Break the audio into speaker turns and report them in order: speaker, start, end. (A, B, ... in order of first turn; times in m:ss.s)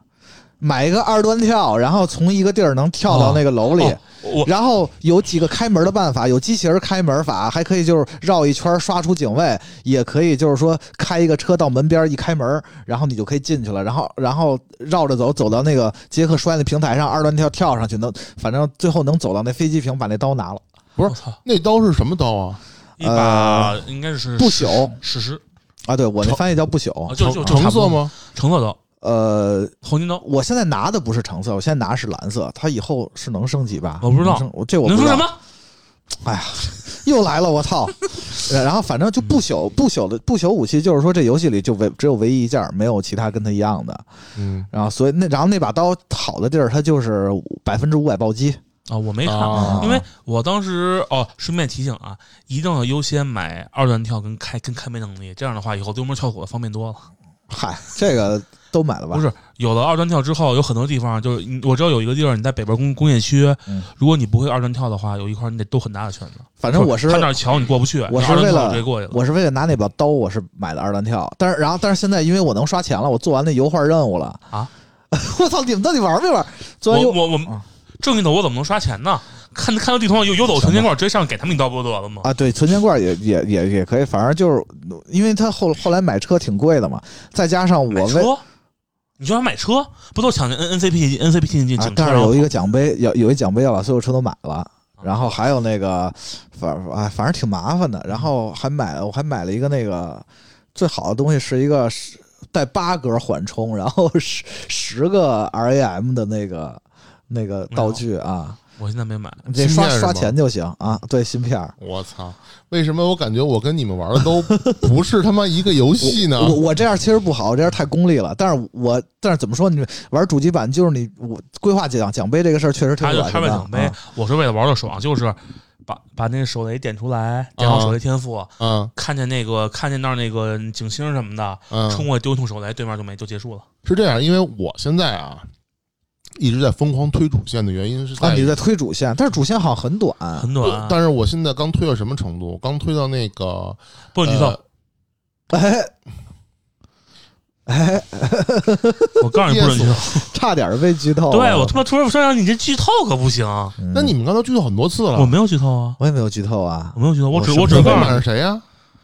0:00.6-0:20.6 A
0:03.1-0:04.5 B
0:21.0-0:22.6 C
0:21.1-0:21.4 B
0:23.0-0:25.4 B
0:23.0-0:23.8 A
0:24.4-0:25.0 A
0:25.8-0:27.7 A
0:27.1-0:28.8 B
0:27.2-0:28.1 C
0:29.0-0:35.3 A
0:29.8-0:30.2 B
0:34.0-0:35.4 B
0:36.2-0:44.0 A
0:44.4-0:44.7 C
0:44.7-0:48.6 A
0:48.9-0:57.1 B
0:49.2-0:50.0 C
0:49.5-0:50.0 A
0:57.5-0:59.2 A
0:59.1-1:09.2 B
1:06.6-1:07.3 A
1:08.1-1:14.5 A
1:15.1-1:17.6 A
1:16.9-1:22.3 B
1:20.5-1:20.9 A
1:22.2-1:28.3 A
1:27.9-1:28.4 B
1:29.2-1:32.5 B
1:31.8-1:48.6 A
1:35.0-1:35.3 B
1:47.7-1:48.0 B
1:48.8-1:49.4 B
1:49.4-1:51.8 A
1:49.6-1:50.3 C
1:51.8-1:56.6 C
1:56.0-2:04.0 A
2:03.0-2:13.6 B
2:07.6-2:08.0 C
2:08.6-2:08.9 C
2:11.7-2:12.1 C
2:13.8-2:15.5 C
2:16.4-2:18.6 C
2:18.2-2:20.5 A
2:20.4-2:21.0 B
2:20.6-2:24.6 C
2:24.1-2:24.6 B
2:25.5-2:25.9 A
2:27.6-2:29.2 A
2:29.2-2:30.3 B
2:29.4-2:30.0 C
2:30.2-2:31.8 A
2:31.3-2:33.8 B
2:33.8-2:34.2 A
2:33.9-2:35.3 C
2:35.1-2:36.0 B
2:36.0-2:38.2 A
2:36.9-2:38.2 B
2:37.7-2:38.6 C